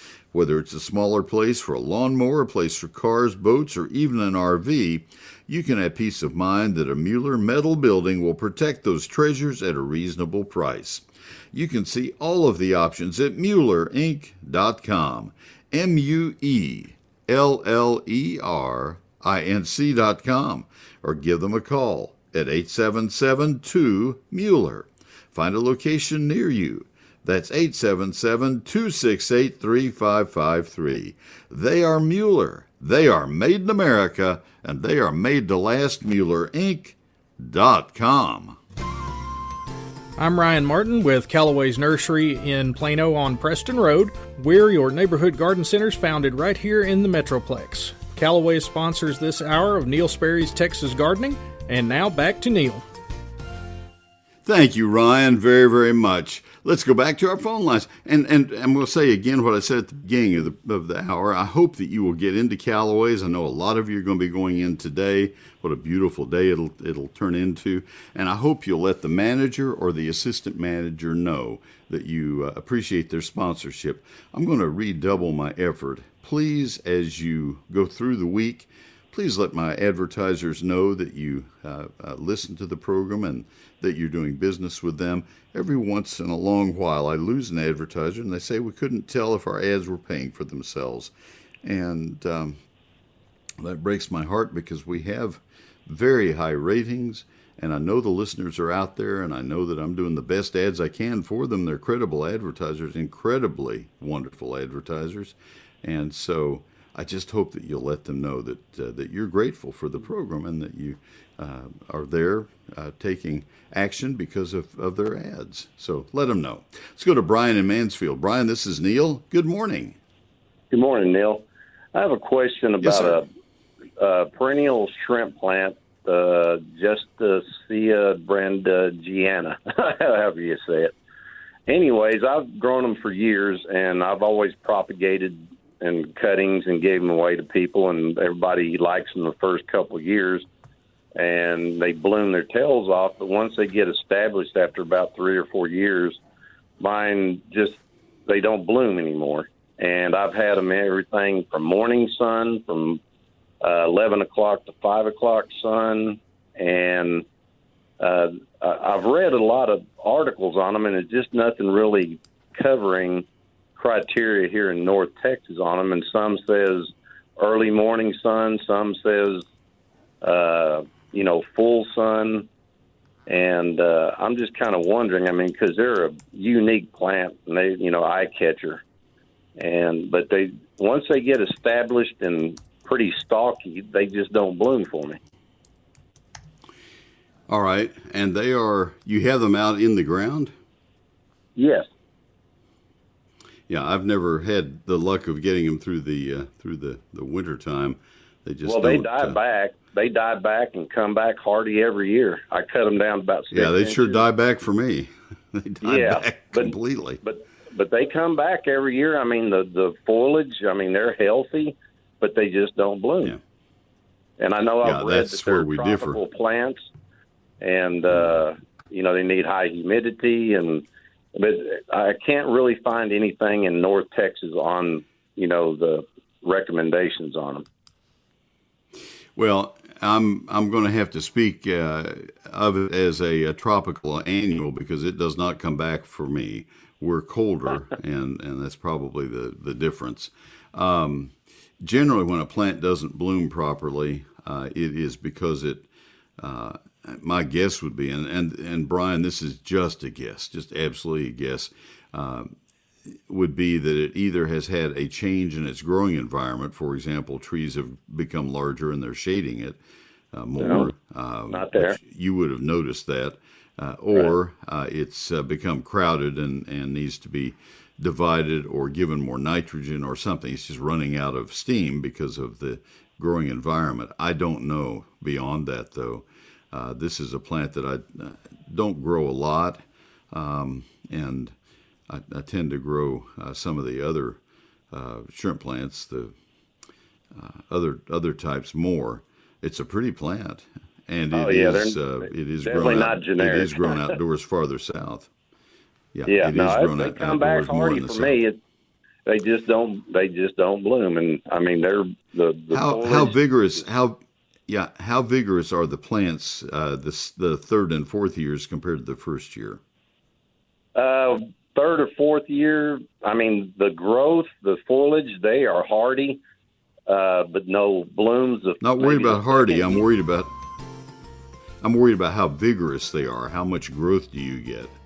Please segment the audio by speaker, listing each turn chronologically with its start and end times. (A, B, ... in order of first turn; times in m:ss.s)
0:00.3-0:38.6 A
0:40.2-0:52.8 B
0:54.4-1:31.1 A
1:31.6-1:32.6 A
1:33.6-2:00.0 A
2:00.7-2:03.3 C
2:02.8-2:03.2 A
2:04.0-2:10.9 C
2:11.7-2:20.4 C
2:21.2-2:26.2 C
2:26.8-2:33.0 C
2:33.6-2:37.2 C
2:38.0-2:43.3 C
2:43.8-2:49.4 C
2:50.2-2:52.5 C
2:53.3-2:58.8 C
2:59.6-3:05.2 C
3:07.5-3:10.5 A
3:11.6-3:11.9 C
3:13.7-3:19.4 A
3:18.6-3:24.2 C
3:23.5-3:27.2 A
3:25.8-3:33.4 C
3:34.4-3:36.8 C
3:34.8-3:36.2 A
3:37.6-3:47.6 C
3:49.4-4:05.9 A
4:06.4-4:12.5 A
4:13.3-4:19.8 A
4:20.3-4:41.6 A
4:20.6-4:20.9 C
4:21.5-4:22.0 C
4:42.1-4:44.4 A
4:44.9-4:46.4 A
4:47.3-4:55.3 A
4:51.3-4:54.2 C
4:56.1-4:58.4 A
4:56.3-4:58.6 C
4:59.3-5:03.4 C
5:02.7-5:09.8 A
5:11.0-5:16.4 C
5:17.1-5:20.0 C
5:18.8-5:20.5 A
5:21.8-5:25.0 A